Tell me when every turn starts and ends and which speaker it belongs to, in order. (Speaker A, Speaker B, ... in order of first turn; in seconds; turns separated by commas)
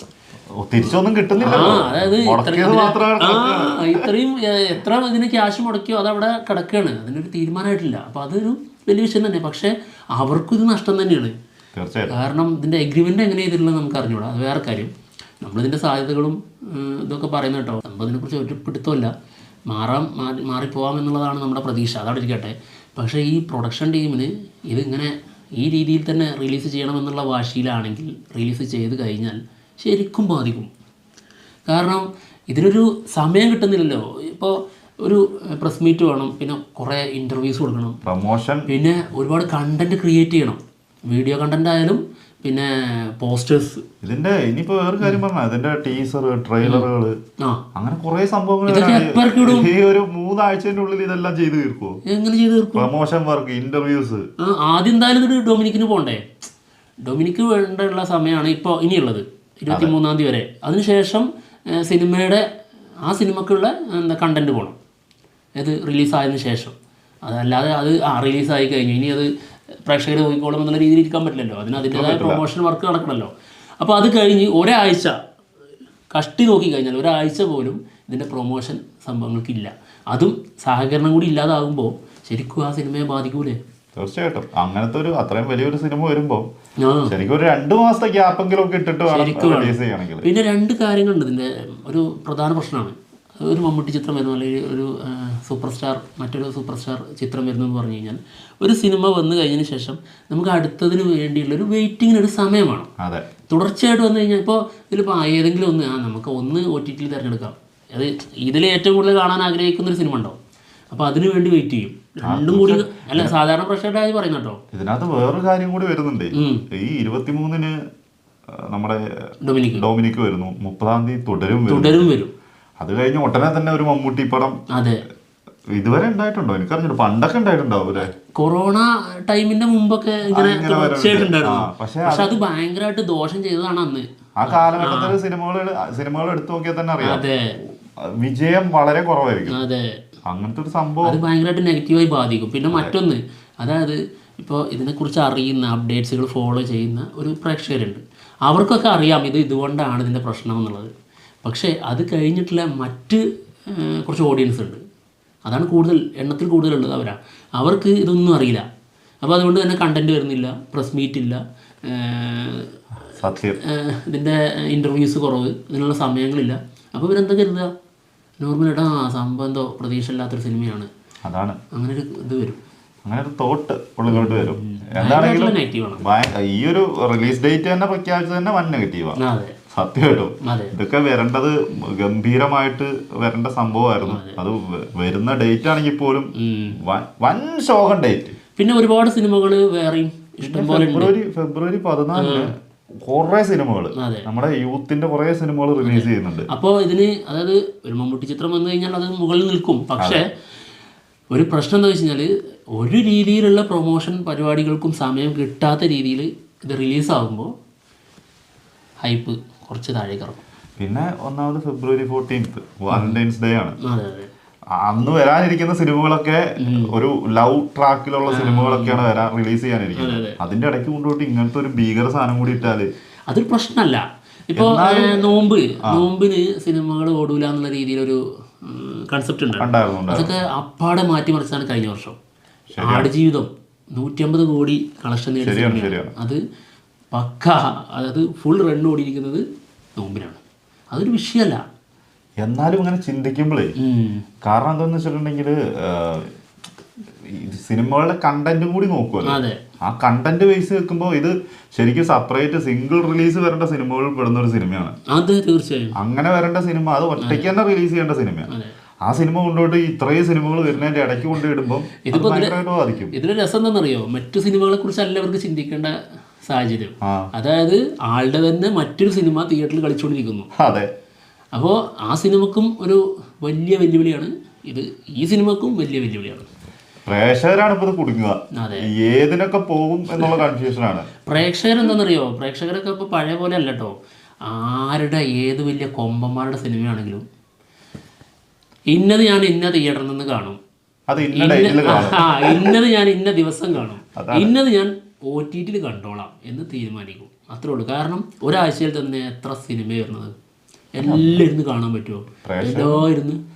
Speaker A: 0.6-4.1, Speaker B: 1.4-11.3, Speaker A: 11.8-12.1, Speaker B: 12.1-14.9, Speaker B: 15.4-19.1, Speaker B: 19.7-30.7, Speaker B: 31.7-38.0, Speaker A: 38.0-38.7, Speaker B: 38.7-43.8, Speaker A: 44.0-47.2, Speaker B: 46.6-46.9, Speaker A: 47.8-52.0, Speaker B: 48.7-49.7, Speaker B: 52.1-52.9, Speaker A: 52.8-54.2, Speaker B: 54.4-56.3, Speaker B: 57.0-62.4, Speaker A: 59.7-59.9, Speaker B: 63.1-64.8, Speaker B: 65.6-69.3, Speaker B: 69.8-75.2, Speaker A: 71.8-72.4, Speaker B: 76.1-83.6, Speaker A: 84.0-86.5, Speaker B: 86.8-87.1, Speaker A: 87.1-90.3, Speaker B: 89.1-102.9, Speaker A: 103.0-103.3, Speaker B: 103.5-110.4, Speaker B: 110.9-114.6, Speaker A: 112.2-113.3, Speaker A: 114.7-117.8, Speaker B: 116.3-116.6, Speaker A: 118.5-119.0, Speaker B: 119.4-119.9, Speaker A: 119.8-122.1, Speaker B: 121.7-122.3, Speaker A: 122.8-124.6, Speaker B: 124.7-125.0, Speaker A: 125.7-128.1, Speaker B: 128.2-135.2, Speaker A: 130.3-132.4, Speaker A: 134.4-139.6, Speaker B: 137.0-137.6, Speaker B: 139.5-139.8, Speaker A: 140.3-141.2, Speaker B: 141.0-150.9, Speaker B: 151.4-154.8, Speaker B: 155.5-158.7, Speaker B: 159.2-162.7, Speaker A: 163.1-163.6, Speaker B: 163.6-167.7, Speaker B: 168.4-170.9, Speaker A: 171.2-171.6, Speaker B: 171.7-172.6, Speaker A: 173.1-179.2, Speaker B: 174.1-176.1, Speaker B: 179.2-179.6, Speaker A: 179.7-188.4, Speaker B: 180.4-180.7, Speaker B: 184.0-184.4, Speaker B: 186.4-186.8, Speaker B: 188.6-191.1, Speaker A: 190.4-192.5, Speaker B: 192.2-192.5, Speaker A: 193.1-196.5, Speaker B: 194.0-194.3, Speaker B: 195.8-200.3, Speaker A: 200.0-200.2, Speaker B: 201.3-207.5, Speaker B: 209.0-210.4, Speaker A: 210.8-213.8, Speaker B: 212.9-213.2, Speaker B: 213.8-214.3, Speaker A: 214.8-222.9, Speaker B: 216.6-216.9, Speaker B: 218.3-219.1, Speaker B: 220.0-220.4, Speaker B: 223.3-232.2, Speaker A: 224.6-226.1, Speaker A: 229.6-230.3, Speaker A: 232.7-233.1, Speaker B: 232.8-236.4, Speaker A: 235.4-236.1, Speaker B: 237.1-239.4, Speaker B: 240.0-240.4, Speaker B: 240.9-241.6, Speaker A: 242.4-243.7, Speaker B: 243.8-244.2, Speaker A: 244.4-246.3, Speaker A: 247.2-254.9, Speaker B: 249.2-249.6, Speaker B: 255.1-255.9, Speaker A: 256.0-258.5, Speaker B: 257.2-257.5, Speaker B: 258.5-258.7, Speaker A: 259.1-263.2, Speaker B: 262.1-262.6, Speaker B: 263.1-270.5, Speaker A: 270.6-270.9, Speaker B: 271.6-276.5, Speaker A: 277.1-281.1, Speaker B: 278.6-278.9, Speaker B: 280.2-280.4, Speaker B: 281.3-283.9, Speaker B: 284.5-287.2, Speaker B: 288.9-290.6, Speaker A: 291.1-292.8, Speaker B: 291.3-300.3, Speaker A: 294.2-294.5, Speaker B: 301.0-303.4, Speaker A: 301.0-301.4, Speaker A: 302.4-303.1